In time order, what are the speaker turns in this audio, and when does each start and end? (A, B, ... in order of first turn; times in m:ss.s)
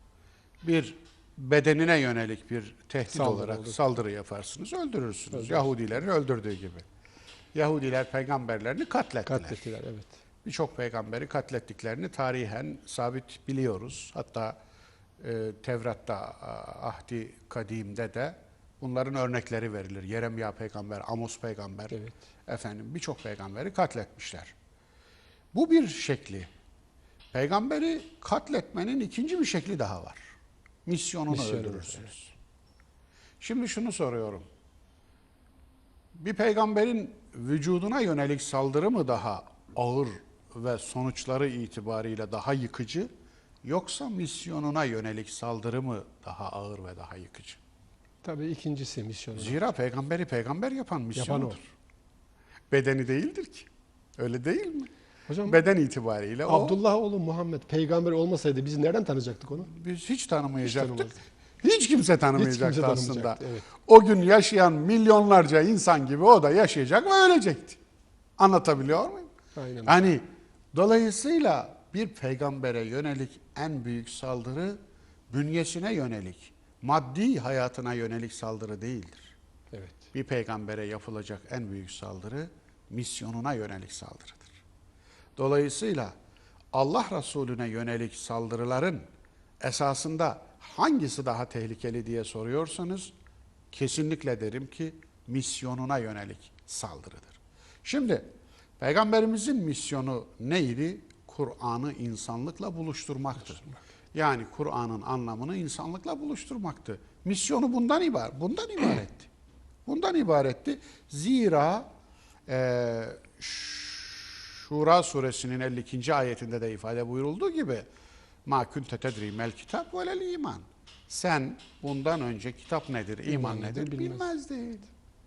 0:00.6-0:06.8 A
0:03.1-0:03.8 B
0:05.3-0:05.7 B
0:07.5-0:09.7 A
0:09.2-0:10.1 B
0:10.4-0:14.5 A
0:15.2-0:24.5 A
0:25.5-0:26.5 A
0:27.3-0:30.2 A
0:30.8-0:32.3 A
0:31.3-0:32.1 B
0:33.4-0:34.5 A
0:36.1-0:43.1 A
0:43.6-0:47.6 A
0:48.2-0:49.6 B
0:49.3-0:51.6 A
0:51.1-0:51.6 B
0:52.7-0:54.9 A
0:55.3-0:55.6 B
0:55.4-0:56.8 A
0:56.4-0:59.7 B
0:59.6-1:07.8 A
1:00.6-1:01.1 B
1:02.4-1:03.7 B
1:08.4-1:09.3 A
1:09.5-1:10.1 B
1:09.8-1:14.8 A
1:15.3-1:19.3 A
1:19.7-1:20.0 B
1:20.1-1:24.6 A
1:25.4-1:26.1 A
1:26.7-1:29.0 A
1:29.6-1:33.1 A
1:33.7-1:38.3 A
1:38.8-1:43.6 A
1:43.5-1:43.8 B
1:44.1-1:49.3 A
1:49.8-1:51.9 A
1:52.5-1:57.9 A
1:58.4-2:04.9 A
2:03.2-2:04.3 B